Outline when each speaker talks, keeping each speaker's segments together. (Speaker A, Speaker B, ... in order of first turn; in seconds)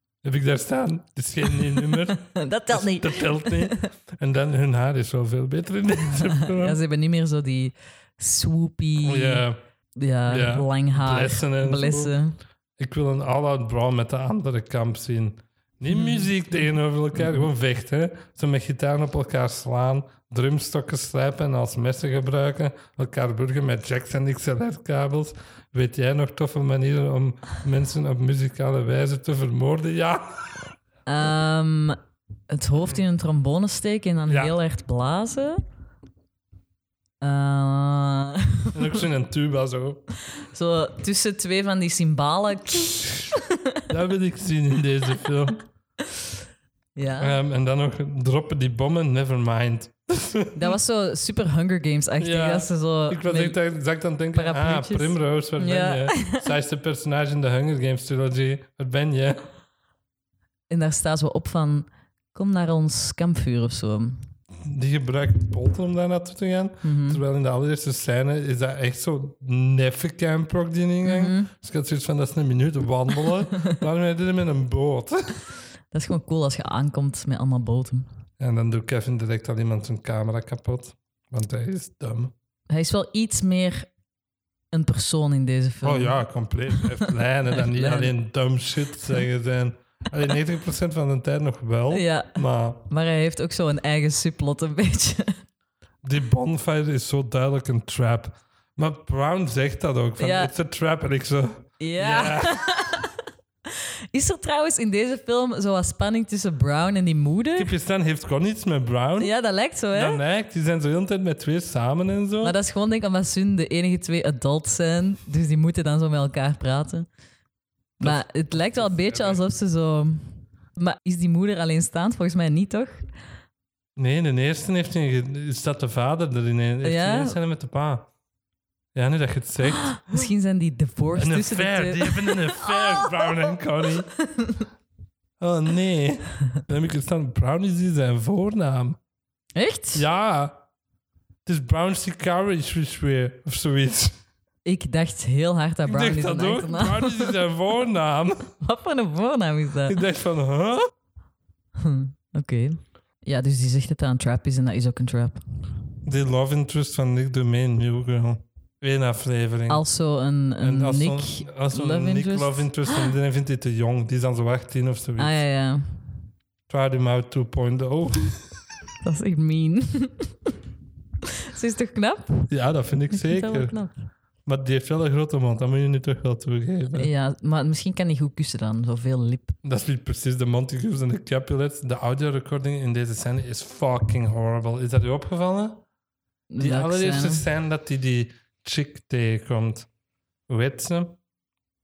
Speaker A: 0.2-6.8, 9.0-9.6, 10.3-12.1, 12.8-30.7, 34.3-34.6, 38.7-40.0, 43.9-45.6, 47.2-50.7, 52.2-59.5, 64.6-75.5, 78.4-82.3, 85.8-92.8, 96.0-102.7, 107.5-109.3, 109.9-112.6, 118.0-119.4, 124.0-128.1, 128.9-130.3, 131.1-134.1, 135.4-139.0, 139.9-140.6, 141.4-144.2, 145.8-148.5, 149.8-150.9, 156.0-159.8, 160.6-165.4, 166.7-168.5, 172.5-173.8, 174.4-177.1, 179.6-185.8, 186.6-189.9, 190.5-191.2
Speaker B: 1.7-3.9, 6.2-9.4, 9.9-12.4, 15.9-17.5, 31.1-32.0, 32.5-35.6, 37.2-39.0, 40.4-43.4, 47.0-47.4, 50.5-53.6, 54.3-56.5, 60.7-64.2, 66.8-67.2, 71.0-71.5, 75.9-78.1, 82.7-83.9, 84.7-86.2, 86.7-88.1, 91.9-95.4, 100.2-100.5, 101.8-103.1, 104.1-107.7, 109.2-110.2, 112.4-117.1, 118.0-123.1, 126.8-127.4, 130.0-133.4, 134.2-134.6, 139.5-140.1, 144.6-147.4, 148.6-150.0, 151.8-155.4, 159.7-162.7, 165.2-165.8, 169.0-170.3, 171.5-172.5, 173.1-174.0, 176.9-179.6, 186.5-187.4